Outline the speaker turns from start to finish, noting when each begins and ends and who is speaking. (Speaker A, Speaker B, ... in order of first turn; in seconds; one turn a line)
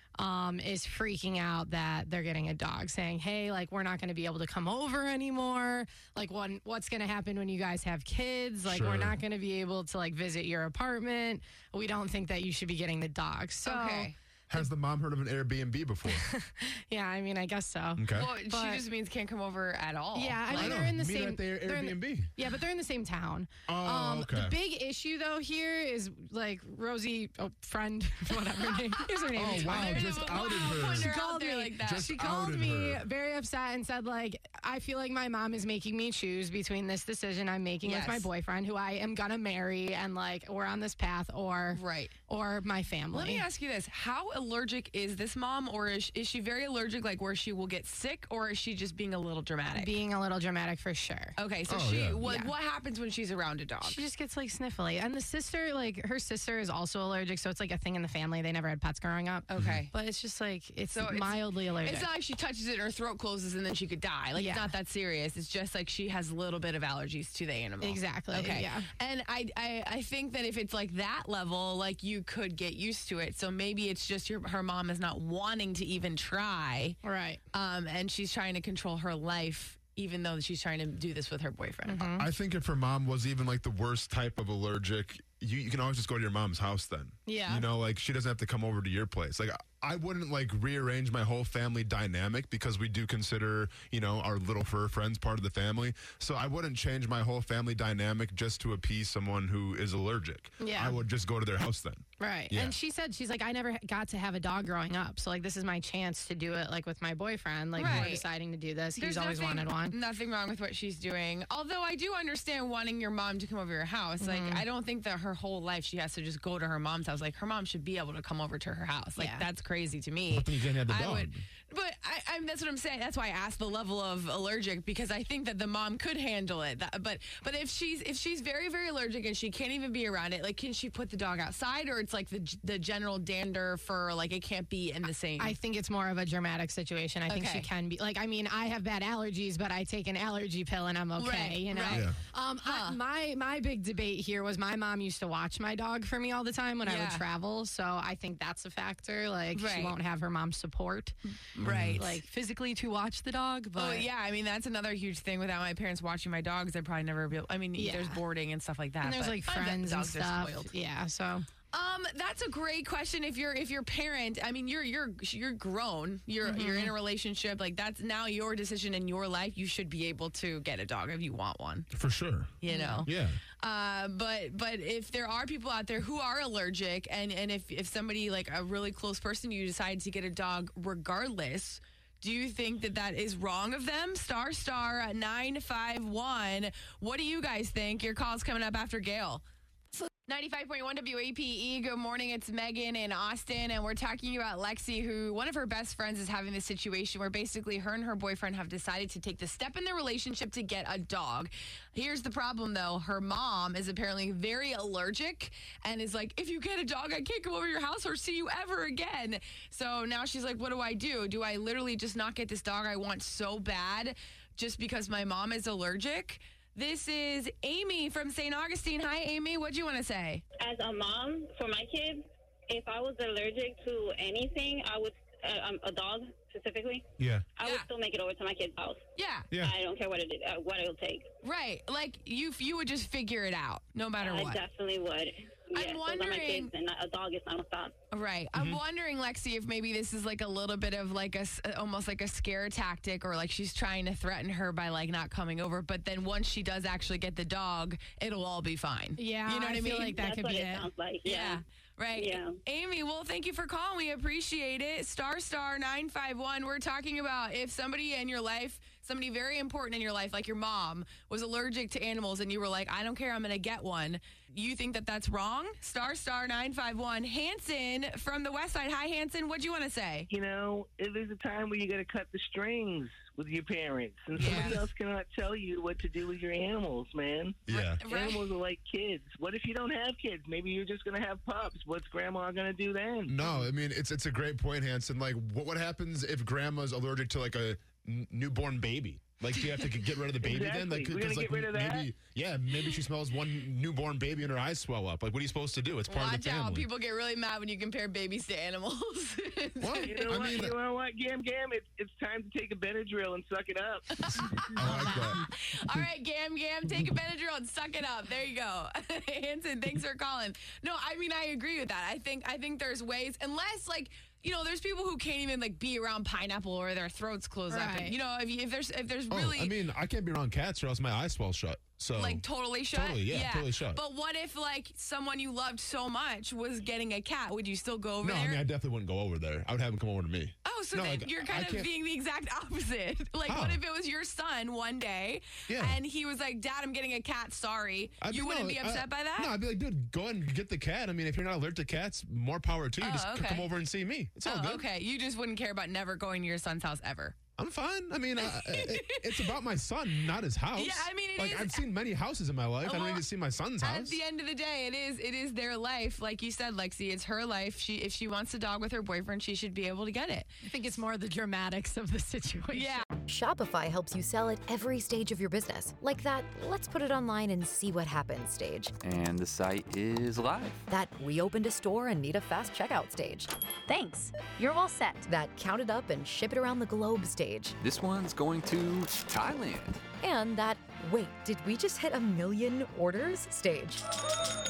Speaker A: 0.2-14.6
Speaker B: 8.7-9.2
Speaker C: 13.7-14.2
Speaker B: 14.5-16.2
Speaker A: 16.1-18.8
Speaker B: 18.0-18.3
Speaker C: 18.1-20.9
Speaker A: 20.1-43.5
Speaker B: 20.5-22.3
Speaker B: 23.7-24.6
Speaker C: 29.1-32.1
Speaker B: 29.4-31.1
Speaker B: 31.8-33.0
Speaker C: 37.8-38.3
Speaker C: 41.7-42.2
Speaker C: 43.1-50.0
Speaker A: 49.7-51.4
Speaker C: 51.4-54.0
Speaker B: 51.7-52.2
Speaker A: 52.2-52.5
Speaker A: 53.8-62.1
Speaker C: 59.5-59.9
Speaker C: 60.9-77.0
Speaker A: 64.3-64.8
Speaker A: 67.8-68.9
Speaker A: 77.0-77.4
Speaker C: 77.5-82.1
Speaker A: 81.8-82.3
Speaker B: 82.1-102.8
Speaker A: 87.3-87.7
Speaker A: 100.6-101.0
Speaker A: 102.2-110.0
Speaker C: 107.8-108.2
Speaker B: 107.8-108.1
Speaker C: 109.0-135.6
Speaker A: 114.2-114.6
Speaker A: 119.2-119.5
Speaker B: 120.3-121.4
Speaker A: 135.4-151.2
Speaker C: 137.3-137.7
Speaker C: 141.2-143.0
Speaker B: 141.9-142.2
Speaker C: 146.8-147.2
Speaker C: 149.5-150.0
Speaker C: 151.6-152.2
Speaker B: 151.6-152.1
Speaker A: 151.9-154.1
Speaker C: 153.8-160.7
Speaker A: 157.8-158.2
Speaker A: 159.0-161.5
Speaker C: 161.7-171.9
Speaker A: 166.4-166.9
Speaker B: 171.9-173.4
Speaker C: 172.6-189.4
Speaker A: 172.7-173.1
Speaker C: 189.9-220.4
Speaker D: 220.6-227.0
Speaker B: 227.2-227.4
Speaker D: 227.6-229.0
Speaker C: 229.2-229.5
Speaker D: 229.6-231.3
Speaker C: 231.4-234.6
Speaker D: 234.2-237.9
Speaker C: 235.7-236.7
Speaker C: 238.1-250.3
Speaker B: 238.6-238.8
Speaker A: 249.2-250.9
Speaker D: 250.2-251.6
Speaker C: 251.2-270.3
Speaker D: 252.2-252.6
Speaker E: 270.3-283.3
Speaker C: 274.4-274.9
Speaker B: 274.4-274.7
Speaker B: 277.7-278.0
Speaker C: 277.7-278.5
Speaker B: 283.3-296.9
Speaker E: 290.4-292.1
Speaker C: 296.1-300.6
Speaker B: 299.8-300.8
Speaker E: 300.1-304.2
Speaker C: 304.2-319.8
Speaker B: 304.8-305.4
Speaker A: 304.9-305.2
Speaker A: 317.7-318.2
Speaker B: 319.3-324.0
Speaker C: 322.1-328.6
Speaker B: 328.2-331.9
Speaker C: 330.6-339.5
Speaker B: 333.5-333.8
Speaker B: 335.7-336.0
Speaker B: 338.2-344.9
Speaker C: 343.0-343.7
Speaker C: 344.4-347.4
Speaker B: 347.6-354.2
Speaker C: 348.4-349.6
Speaker C: 350.7-351.9
Speaker C: 352.8-353.3
Speaker C: 353.8-360.5
Speaker A: 360.6-363.1
Speaker C: 362.7-363.1
Speaker F: 363.2-368.9
Speaker G: 369.0-370.8
Speaker F: 370.9-377.8
Speaker G: 377.8-380.0
Speaker F: 380.2-384.0